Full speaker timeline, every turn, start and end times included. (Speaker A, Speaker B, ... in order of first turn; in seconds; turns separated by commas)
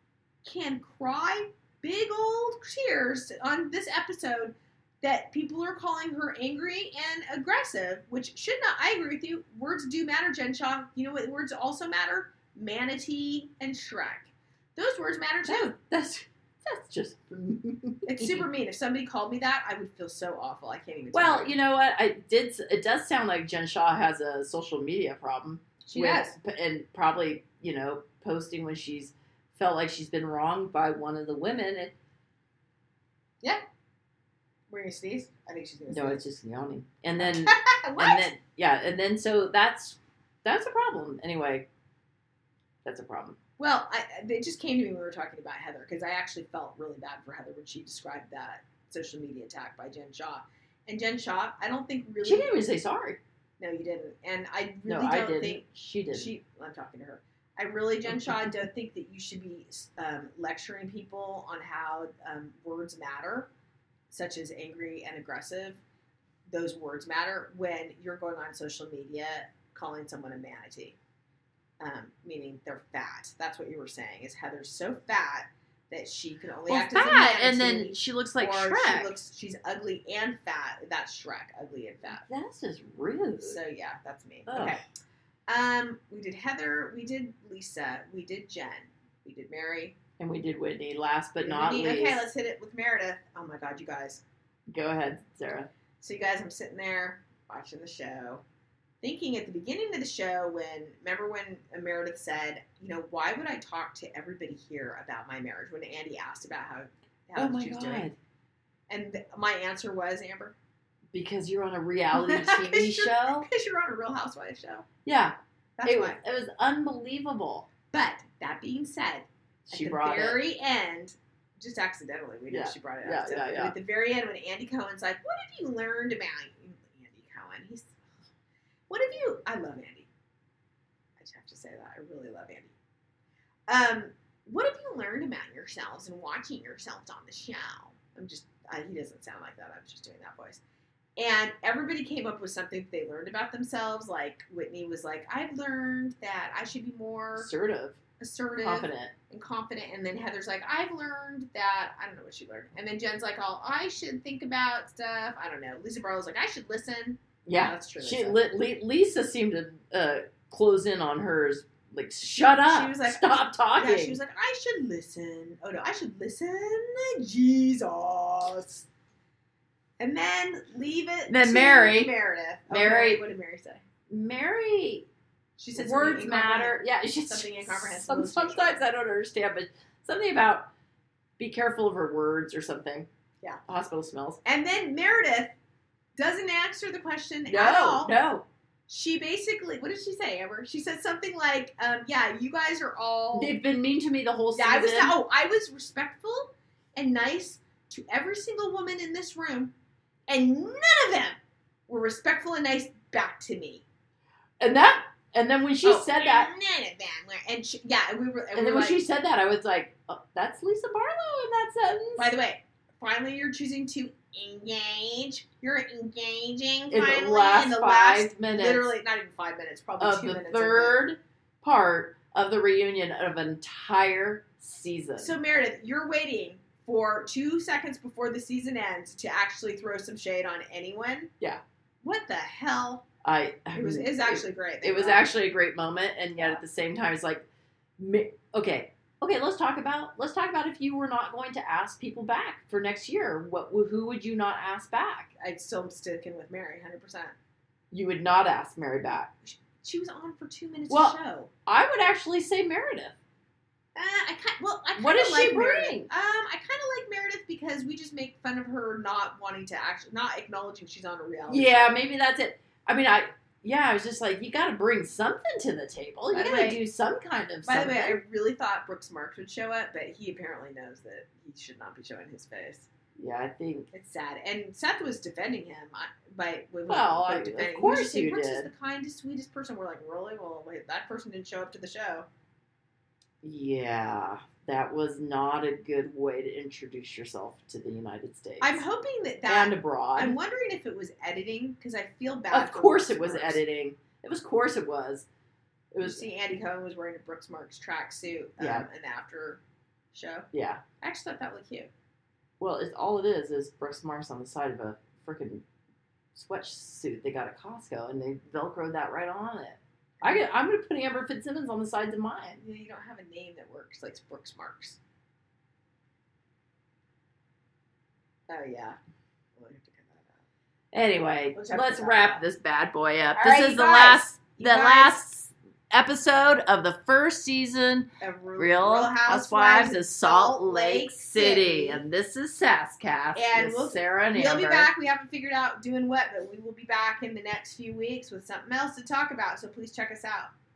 Speaker A: 0.4-15.7, Speaker B: 15.4-18.5, Speaker A: 18.1-21.5, Speaker B: 21.1-31.9, Speaker A: 25.8-26.4, Speaker A: 34.7-36.2, Speaker B: 35.9-41.6, Speaker A: 37.2-38.3, Speaker B: 42.8-43.4, Speaker A: 43.6-52.5, Speaker B: 52.2-53.2, Speaker A: 53.6-63.5, Speaker B: 54.9-56.3, Speaker B: 58.1-58.5, Speaker A: 64.1-65.8, Speaker A: 66.5-71.0, Speaker A: 71.8-82.3, Speaker B: 76.7-79.1, Speaker B: 82.1-83.6, Speaker A: 83.4-84.8, Speaker B: 84.5-84.8, Speaker A: 85.5-90.0, Speaker B: 90.2-92.3, Speaker A: 91.4-94.2, Speaker B: 94.7-95.7, Speaker A: 96.0-98.4, Speaker A: 99.0-108.1, Speaker B: 107.3-108.2, Speaker A: 108.9-110.5, Speaker B: 111.1-113.5, Speaker A: 112.1-114.8, Speaker B: 115.0-117.7, Speaker A: 115.8-116.2, Speaker A: 117.9-128.0, Speaker B: 119.7-120.4, Speaker B: 122.5-123.7, Speaker A: 128.9-130.1, Speaker A: 131.2-132.8, Speaker A: 133.7-140.6, Speaker A: 141.2-147.5, Speaker B: 147.3-148.0, Speaker A: 148.2-158.4, Speaker B: 148.6-149.1, Speaker B: 157.4-164.2, Speaker A: 162.6-168.8, Speaker A: 170.0-173.8, Speaker B: 171.3-172.1, Speaker B: 172.7-173.2, Speaker B: 174.1-175.1, Speaker A: 175.6-178.8, Speaker B: 175.7-180.7, Speaker B: 181.4-183.1, Speaker B: 183.7-184.4, Speaker A: 184.4-185.5, Speaker A: 186.2-188.1, Speaker B: 187.5-188.4, Speaker A: 188.9-193.5, Speaker B: 193.3-195.2, Speaker A: 194.5-199.7, Speaker A: 200.3-203.8, Speaker B: 204.6-206.5, Speaker A: 205.8-209.0, Speaker B: 208.5-212.3, Speaker A: 212.2-221.0, Speaker B: 216.9-218.9, Speaker B: 220.0-225.3, Speaker A: 225.2-231.3, Speaker A: 232.0-233.0, Speaker B: 233.2-237.4, Speaker A: 233.7-235.3, Speaker A: 236.3-236.6, Speaker B: 238.0-245.3, Speaker A: 245.4-247.3, Speaker B: 247.9-249.3, Speaker A: 249.4-251.5, Speaker B: 250.9-253.2, Speaker A: 253.9-261.9, Speaker B: 254.9-256.1, Speaker B: 261.5-268.2, Speaker A: 266.3-266.8, Speaker A: 267.6-272.9, Speaker B: 273.2-273.9, Speaker A: 273.9-282.3, Speaker B: 276.9-278.7, Speaker B: 283.4-288.8, Speaker A: 288.6-293.6, Speaker B: 289.4-290.4, Speaker B: 292.5-295.3, Speaker B: 295.9-296.2, Speaker A: 296.0-299.6, Speaker B: 298.6-298.9, Speaker A: 300.1-300.5, Speaker B: 300.5-300.8, Speaker A: 301.0-301.9, Speaker B: 302.6-305.6, Speaker B: 306.3-312.6, Speaker A: 310.2-310.4, Speaker A: 312.6-315.0, Speaker A: 318.5-319.0, Speaker A: 319.6-320.4, Speaker B: 320.9-334.9, Speaker A: 321.5-322.4, Speaker A: 323.3-325.2, Speaker A: 328.2-332.0, Speaker A: 333.3-340.5